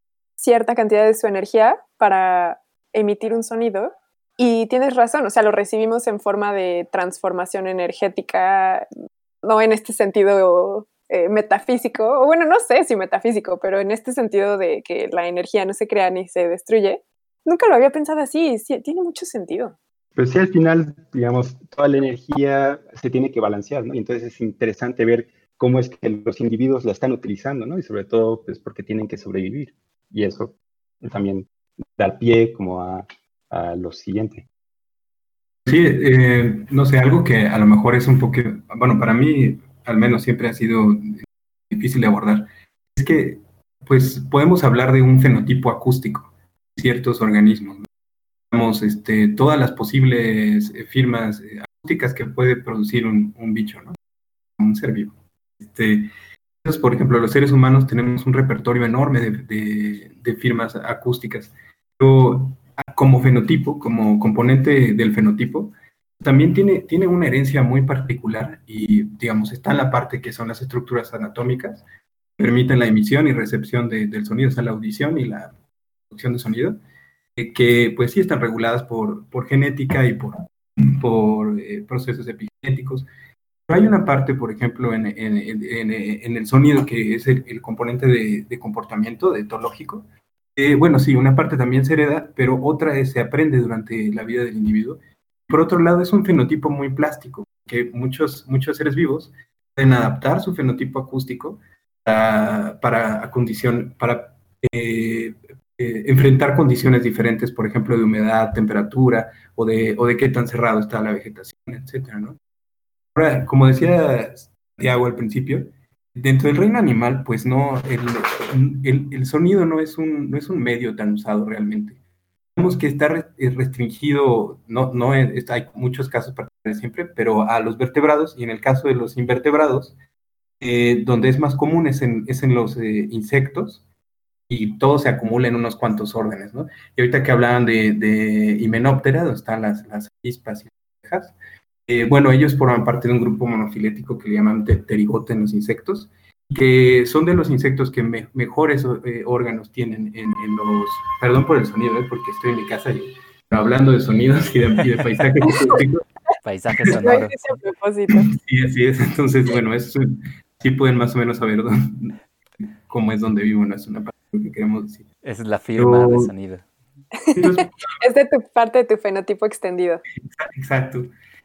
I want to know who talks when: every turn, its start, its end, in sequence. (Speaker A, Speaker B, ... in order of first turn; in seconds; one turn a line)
Speaker A: 0.4-8.9
Speaker A: 9.4-19.7
Speaker B: 20.1-34.5
Speaker C: 35.6-47.8
Speaker C: 48.5-54.0
Speaker C: 54.6-56.1
Speaker C: 56.6-71.8
Speaker C: 72.4-75.5
Speaker C: 76.1-76.8
Speaker C: 77.4-83.1
Speaker C: 83.7-112.4
Speaker C: 113.1-122.0
Speaker C: 122.5-129.9
Speaker C: 130.6-133.8
Speaker C: 134.5-141.3
Speaker C: 141.9-156.0
Speaker A: 155.4-155.8
Speaker D: 156.4-157.4
Speaker A: 156.9-158.3
Speaker C: 158.2-160.1
Speaker C: 160.6-162.1
Speaker C: 162.9-165.1
Speaker D: 165.2-166.7
Speaker C: 165.8-166.3
Speaker A: 167.2-170.0
Speaker C: 167.4-167.7
Speaker C: 170.2-171.1